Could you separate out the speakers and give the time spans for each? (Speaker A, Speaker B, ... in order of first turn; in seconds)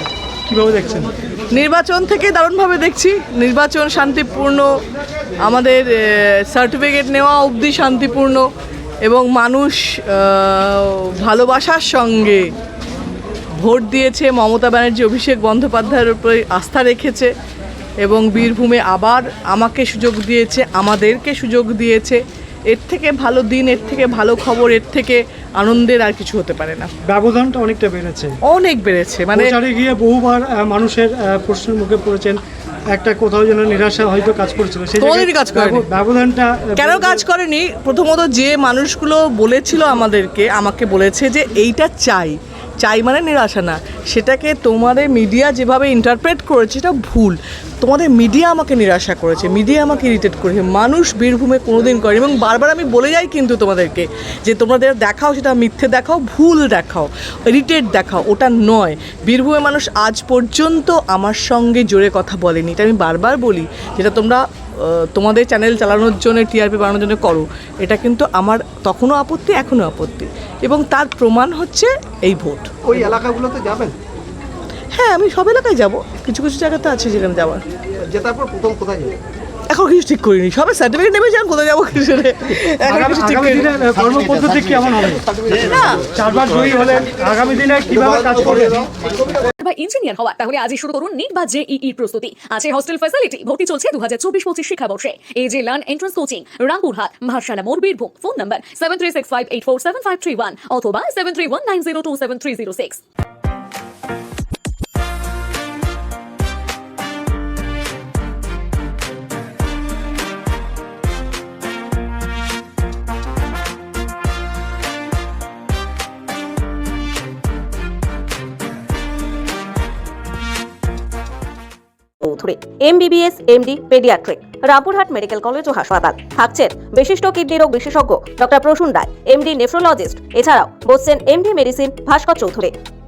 Speaker A: 0.5-1.1, 27.1-28.4, 29.3-32.4, 32.9-37.2, 82.8-85.2, 86.0-88.9
Speaker B: 1.5-4.7, 5.4-8.4, 9.1-12.4, 13.6-17.3, 18.0-22.2, 22.7-26.9, 28.5-29.5, 35.0-35.9, 36.8-73.1, 75.0-77.6, 79.7-83.7, 85.6-86.0
Speaker C: 72.9-73.9, 78.1-79.2
Speaker D: 89.6-103.0
Speaker E: 122.2-132.7